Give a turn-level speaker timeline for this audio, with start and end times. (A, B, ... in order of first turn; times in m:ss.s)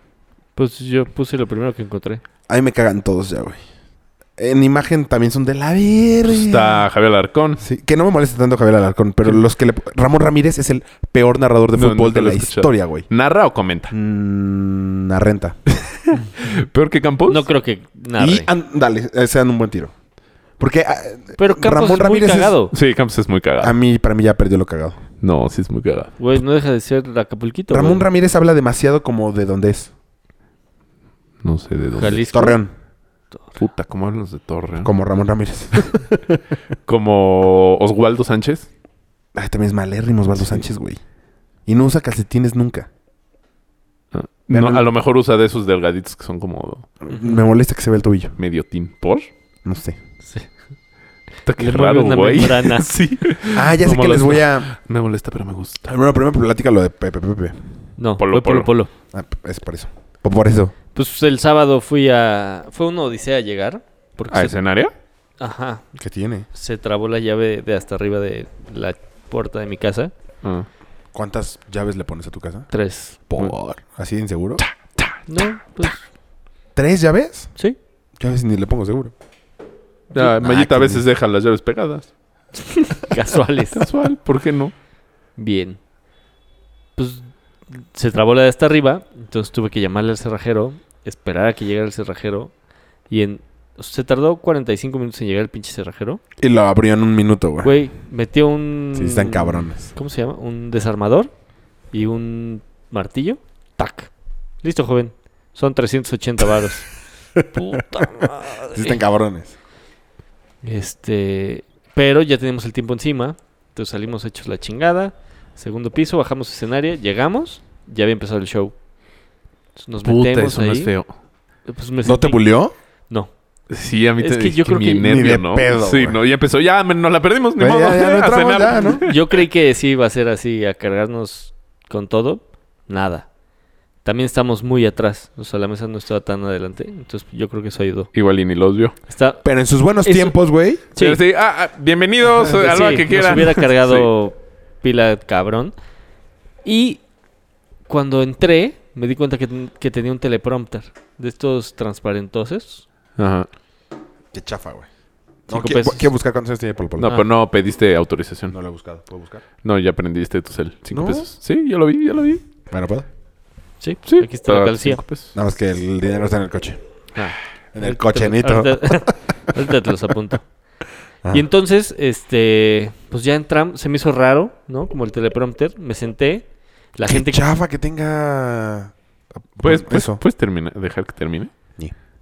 0:00.6-0:02.2 A
0:02.5-0:03.6 B
0:04.4-0:06.9 B
0:06.3-0:07.6 C
0:07.6-0:13.0 B
0:11.8-0:13.9 C
0:13.9-0:15.6 B
0:15.7-0:17.4 C
0:17.3-0:18.5 A
0:18.2-0:19.9 B
0:20.6-0:22.6 B
0:21.4-0:22.7 A
0:22.7-0:23.7 C
0:23.6-0:25.0 B
0:25.2-0:26.1 C
0:26.2-0:28.0 A
0:27.7-0:29.9 B
0:31.4-0:32.2 C
0:32.0-0:32.6 A
0:32.3-0:32.7 B
0:33.6-0:34.9 C
0:34.8-0:36.4 B
0:36.9-0:38.7 C
0:39.4-0:41.0 B
0:41.6-0:42.9 B
0:44.1-0:46.9 C
0:44.5-0:44.9 B
0:47.0-0:48.4 B
0:47.1-0:47.4 A
0:48.4-0:49.3 C
0:49.6-0:50.0 B
0:51.4-0:55.9 C
0:51.6-0:52.9 A
0:53.5-0:54.7 B
0:55.9-0:57.6 B
0:58.0-0:58.9 A
0:58.2-0:58.7 C
0:59.1-1:00.7 B
1:00.9-1:04.6 A
1:04.3-1:04.9 C
1:05.4-1:05.8 A
1:06.0-1:06.5 B
1:06.5-1:10.1 A
1:11.1-1:12.7 B
1:12.7-1:13.2 A
1:13.3-1:14.6 B
1:14.6-1:15.2 C
1:15.3-1:16.0 A
1:16.7-1:17.5 B
1:18.2-1:19.1 B
1:20.1-1:22.1 C
1:20.2-1:21.0 B
1:22.6-1:23.9 A
1:23.7-1:24.7 C
1:25.4-1:25.8 A
1:27.0-1:32.5 A
1:33.1-1:36.2 A
1:36.4-1:37.7 B
1:37.6-1:41.3 A
1:38.9-1:39.9 B
1:41.9-1:44.1 A
1:44.6-1:46.9 A
1:47.4-1:49.5 B
1:47.5-1:49.0 A
1:50.6-1:58.7 A
1:59.8-2:00.9 A
2:00.0-2:01.1 C
2:01.7-2:02.5 A
2:02.0-2:02.7 B
2:03.7-2:09.2 C
2:04.2-2:05.1 A
2:05.0-2:06.2 B
2:07.6-2:09.0 B
2:09.0-2:13.3 A
2:14.0-2:18.1 A
2:18.1-2:18.9 C
2:19.1-2:19.4 A
2:19.4-2:20.8 B
2:20.0-2:20.4 A
2:20.9-2:21.2 A
2:21.0-2:24.1 C
2:22.4-2:25.7 A
2:26.6-2:27.0 A
2:27.9-2:32.8 A
2:33.2-2:33.5 C
2:34.3-2:34.9 B
2:35.5-2:37.2 B
2:35.5-2:36.1 A
2:37.0-2:38.6 C
2:38.5-2:39.4 B
2:39.6-2:42.4 C
2:40.9-2:41.2 B
2:42.7-2:43.1 B
2:43.8-2:45.0 A
2:44.1-2:45.3 C
2:45.4-2:46.8 B
2:47.2-2:50.4 A
2:47.7-2:49.3 B
2:51.3-2:57.4 A
2:57.0-2:58.9 B
2:59.5-3:00.2 B
2:59.6-3:01.5 C